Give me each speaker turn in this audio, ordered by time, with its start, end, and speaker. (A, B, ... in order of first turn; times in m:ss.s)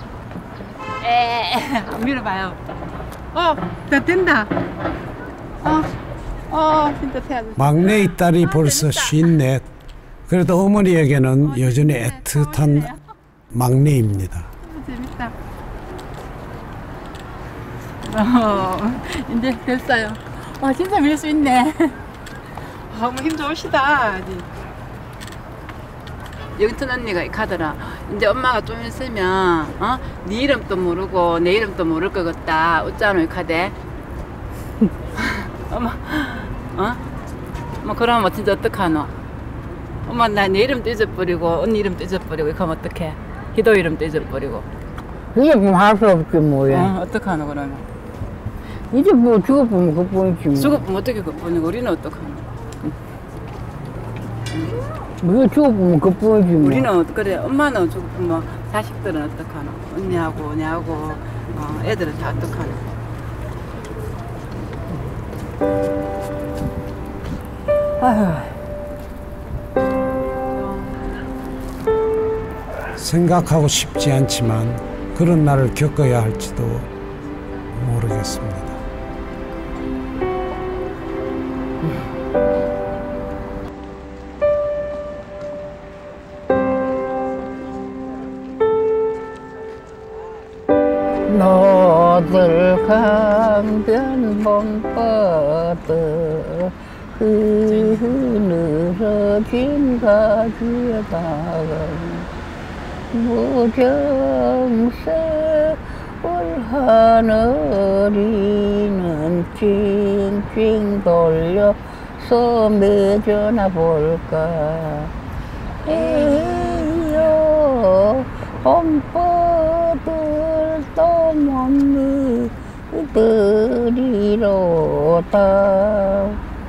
0:01.0-0:02.6 A
0:03.3-0:04.5 A
0:05.6-0:05.9 A
0:06.5-0:09.2 A
0:07.6-0:09.7 B
0:10.3-0:12.9 B
0:11.4-0:12.9 A
0:13.5-0:14.5 B
0:14.7-0:15.3 A
0:18.0-0:22.0 A
0:22.9-0:24.5 A
0:26.6-0:33.8 A
0:35.2-0:37.0 A
0:37.8-0:39.1 A
0:40.1-0:44.7 A
0:45.3-0:46.9 C
0:46.7-0:47.8 A
0:48.9-0:50.8 C
0:50.6-0:52.5 A
0:55.2-0:56.9 C
0:56.6-1:02.9 A
1:08.0-1:08.5 C
1:13.0-1:16.9 B
1:17.7-1:18.8 B
1:31.3-1:42.3 C
1:37.7-1:38.1 A
1:43.1-1:55.1 C
1:55.8-2:06.4 C